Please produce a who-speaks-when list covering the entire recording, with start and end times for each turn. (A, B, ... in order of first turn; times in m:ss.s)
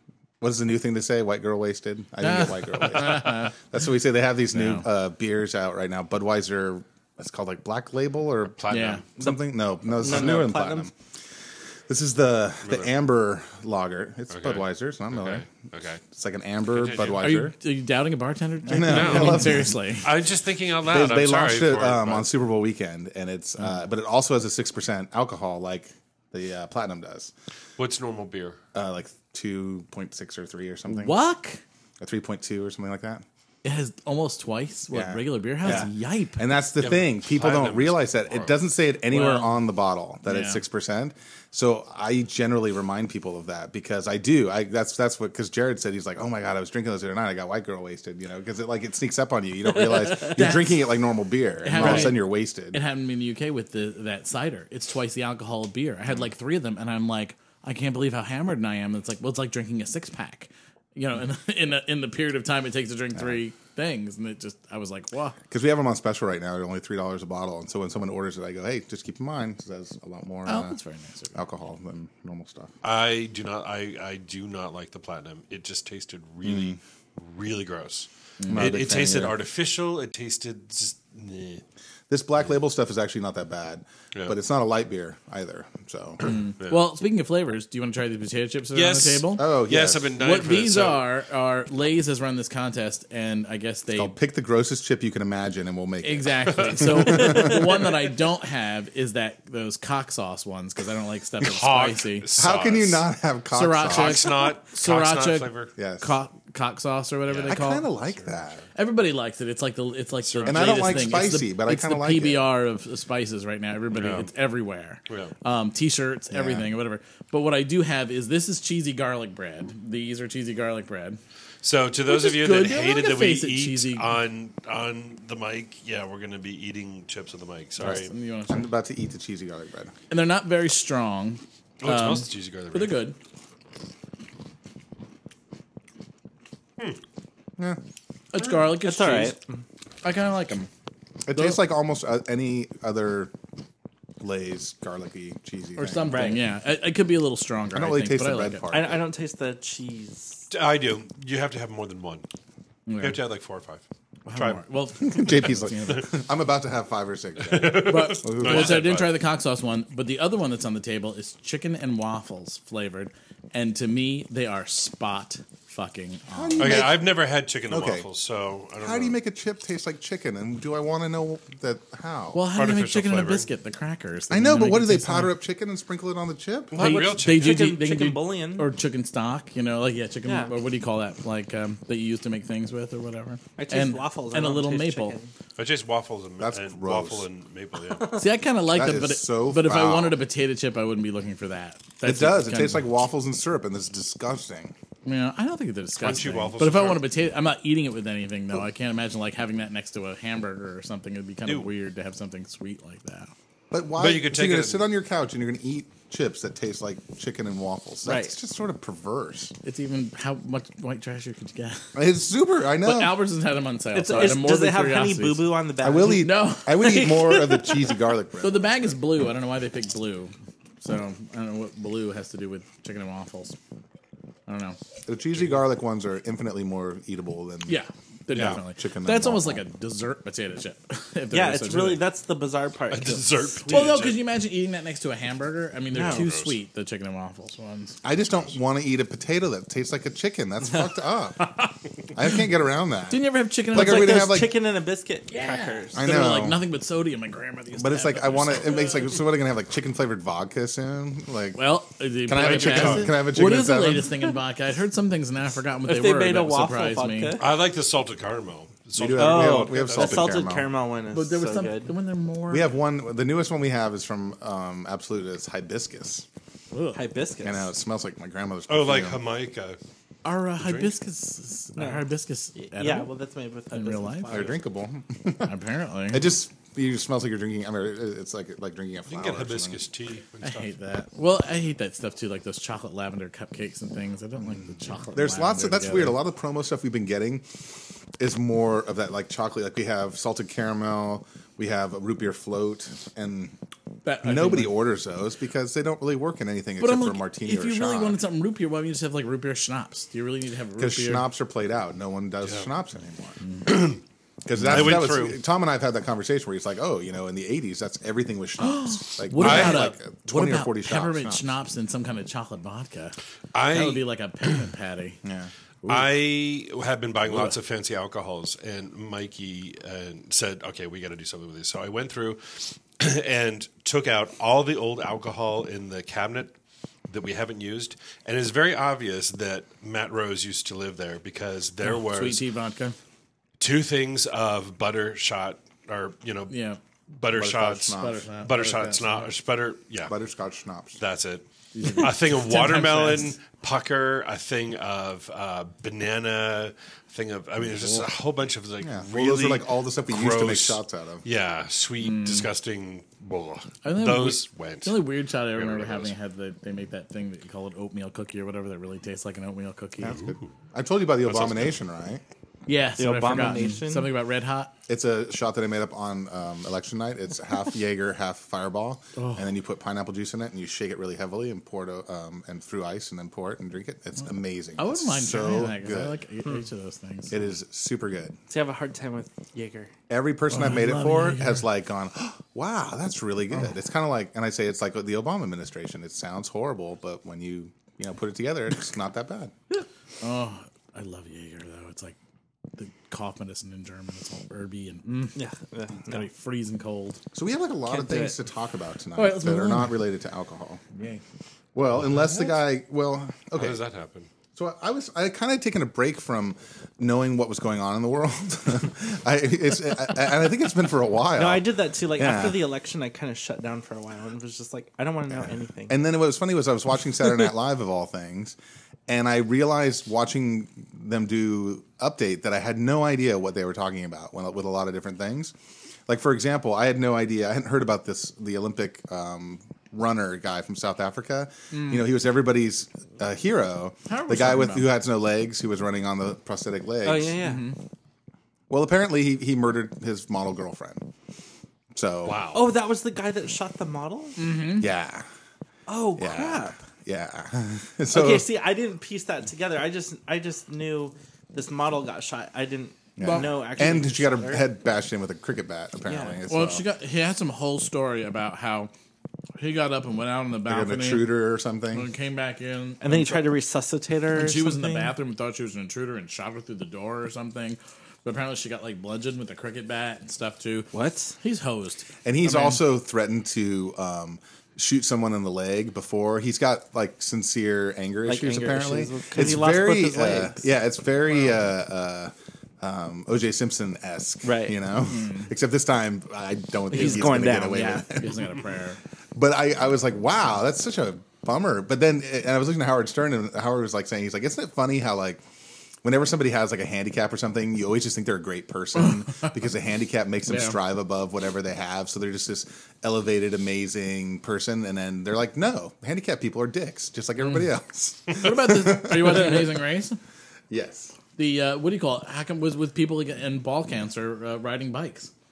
0:00.4-0:10.9 A
0:02.2-0:03.5 B
0:04.5-0:04.9 B
0:08.6-0:09.1 C
0:08.7-0:09.0 B
0:10.0-0:10.9 D
0:11.9-0:15.5 A
0:14.3-0:16.0 C
0:16.0-0:17.6 A
0:16.7-0:17.2 C
0:17.2-0:20.1 B
0:18.7-0:19.8 A
0:18.8-0:22.3 C
0:20.8-0:27.3 A
0:27.8-0:28.6 C
0:28.7-0:31.2 A
0:30.9-0:31.6 B
0:32.0-0:33.2 A
0:33.6-0:36.4 B
0:34.9-0:52.8 A
0:36.8-0:38.6 C
0:39.1-0:39.6 B
0:40.2-0:40.6 B
0:50.0-0:50.3 D
0:50.3-0:50.7 B
0:51.6-1:05.4 B
1:05.5-1:10.8 A
1:10.5-1:11.4 B
1:11.3-1:12.7 A
1:12.8-1:21.6 C
1:16.4-1:16.8 A
1:18.4-1:19.0 B
1:18.5-1:19.4 A
1:22.1-1:26.3 A
1:26.2-1:29.5 B
1:28.7-1:31.1 C
1:29.4-1:30.2 A
1:30.1-1:34.2 B
1:34.0-1:37.7 A
1:36.0-1:42.3 B
1:36.5-1:37.3 C
1:41.4-1:43.1 C
1:42.4-1:44.2 A
1:43.5-1:47.9 B
1:43.9-1:45.7 C
1:45.8-1:46.1 A
1:47.3-1:48.4 C
1:47.5-1:48.6 A
1:48.8-2:01.2 B
1:50.2-1:51.3 C
1:50.5-1:52.5 A
1:53.9-1:54.3 C
1:56.3-1:56.7 A
2:01.6-2:08.1 C
2:02.1-2:04.1 B
2:07.8-2:08.6 B
2:07.8-2:09.9 A
2:10.1-2:13.2 B
2:11.8-2:13.1 C
2:18.3-2:19.4 B
2:18.8-2:19.6 D
2:20.0-2:20.7 B
2:21.3-2:23.3 A
2:24.2-2:26.3 A
2:25.8-2:28.7 B
2:26.1-2:26.4 D
2:27.7-2:29.0 A
2:28.7-2:30.5 D
2:30.5-2:32.3 C
2:32.9-2:33.2 B
2:33.0-2:33.8 C
2:34.3-2:36.1 B
2:34.4-2:34.6 C
2:35.0-2:38.9 A
2:37.4-2:39.2 C
2:37.8-2:46.9 B
2:46.3-2:48.1 A
2:46.6-2:49.2 C
2:48.8-2:52.4 A
2:52.3-2:55.4 B
2:52.5-2:53.5 C
2:54.3-2:56.8 A
2:56.7-2:57.6 C
2:56.8-3:05.2 B
2:56.9-2:58.7 D
3:00.2-3:00.5 D
3:03.6-3:05.3 D
3:05.6-3:08.2 C
3:06.4-3:07.2 A
3:08.1-3:12.8 B
3:08.7-3:10.2 A
3:12.0-3:14.8 A
3:15.0-3:23.3 B
3:16.0-3:17.0 C
3:23.7-3:29.5 A
3:24.0-3:24.9 C
3:28.0-3:28.3 D
3:29.6-3:31.9 B
3:32.0-3:33.2 A
3:32.8-3:35.4 B
3:33.9-3:38.0 D
3:35.8-3:38.7 A
3:36.0-3:36.8 B
3:38.4-3:43.6 B
3:44.5-3:44.8 B
3:45.1-3:47.8 A
3:47.7-3:52.0 B
3:48.3-3:49.6 A
3:48.3-3:48.6 C
3:51.3-3:54.0 D
3:52.9-3:54.2 C
3:53.7-3:58.0 B
3:55.9-3:56.3 D
3:56.0-3:56.6 C
3:58.0-4:01.4 A
4:01.4-4:01.7 B
4:02.1-4:04.5 A
4:03.1-4:04.4 B
4:03.7-4:06.1 D
4:05.3-4:09.1 B
4:05.9-4:06.6 A
4:07.8-4:11.7 A
4:11.6-4:17.4 B
4:12.2-4:14.2 A
4:12.4-4:13.1 C
4:15.9-4:17.6 D
4:17.4-4:20.4 C
4:19.0-4:20.7 A
4:19.2-4:21.9 D
4:21.1-4:22.7 B
4:22.5-4:26.3 A
4:26.7-4:27.0 B
4:26.9-4:27.7 D
4:27.4-4:29.2 A
4:28.7-4:29.8 C
4:30.2-4:33.1 B
4:30.6-4:30.9 C
4:31.8-4:32.0 D
4:32.6-4:34.6 D
4:33.7-4:34.4 B
4:34.3-4:35.5 A
4:35.4-4:36.3 B
4:36.1-4:39.8 A
4:39.1-4:40.7 C
4:40.4-4:46.2 B
4:45.1-4:47.5 A
4:48.2-4:53.5 A
4:54.0-4:54.8 B
4:54.2-4:58.2 A
4:56.8-5:01.3 B
5:00.8-5:03.4 A
5:02.4-5:02.7 C
5:03.6-5:04.0 C
5:04.4-5:11.5 A
5:04.6-5:05.0 B
5:04.6-5:05.4 C
5:08.6-5:13.2 B
5:09.4-5:09.9 C
5:13.5-5:14.1 C
5:13.7-5:15.2 B
5:15.2-5:15.5 A
5:15.8-5:16.1 B
5:15.9-5:26.6 C
5:17.3-5:17.6 B
5:27.1-5:32.5 C
5:31.8-5:33.0 B
5:33.6-5:36.6 C
5:36.5-5:36.8 B
5:37.1-5:40.2 C
5:37.3-5:38.3 A
5:38.0-5:39.3 B
5:40.1-5:41.0 A
5:41.0-5:56.1 C
5:41.7-5:43.4 B
5:47.7-5:48.1 B
5:48.8-5:51.2 A
5:52.0-5:52.5 B
5:53.8-6:00.2 B
6:00.0-6:02.2 A
6:00.0-6:00.5 C
6:01.3-6:01.8 C
6:02.7-6:04.7 B
6:03.0-6:04.1 D
6:04.9-6:16.2 A
6:09.2-6:09.5 B
6:14.8-6:17.4 B
6:17.3-6:18.4 A
6:18.5-6:19.9 D
6:20.1-6:29.5 A
6:20.5-6:21.6 B
6:30.2-6:32.2 B
6:32.8-6:35.4 B
6:35.4-6:36.2 D
6:36.0-6:37.2 B
6:37.3-6:40.8 A
6:37.9-6:38.4 D
6:39.2-6:40.0 B
6:40.9-6:41.2 B
6:41.8-6:43.8 A
6:43.6-6:44.3 C
6:44.5-6:52.6 A
6:51.4-6:56.0 D
6:55.4-6:58.6 A
6:59.1-7:05.5 A
7:06.1-7:17.4 A
7:11.7-7:12.0 B
7:14.1-7:14.9 B
7:17.0-7:17.7 D
7:17.4-7:17.8 B
7:18.7-7:21.0 A
7:21.9-7:22.4 A
7:22.2-7:22.6 C
7:22.5-7:24.4 D
7:24.4-7:24.9 B
7:24.8-7:25.3 A
7:25.9-7:26.8 D
7:26.2-7:28.5 A
7:28.1-7:34.6 D
7:33.2-7:36.9 A
7:33.2-7:33.6 B
7:36.1-7:36.4 D
7:36.5-7:38.9 B
7:39.6-7:41.3 B
7:40.7-7:42.1 A
7:41.9-7:43.4 B
7:43.0-7:45.1 D
7:44.3-7:52.8 B
7:50.9-7:51.4 D
7:52.2-8:08.5 A
7:58.2-8:00.6 D
8:04.4-8:04.8 D
8:05.1-8:05.5 B
8:06.9-8:08.1 D
8:06.9-8:09.0 B
8:09.4-8:15.4 A
8:16.0-8:29.7 A
8:20.5-8:20.8 B
8:27.4-8:27.7 B
8:28.3-8:30.2 B
8:30.7-8:31.2 A
8:31.4-8:35.3 B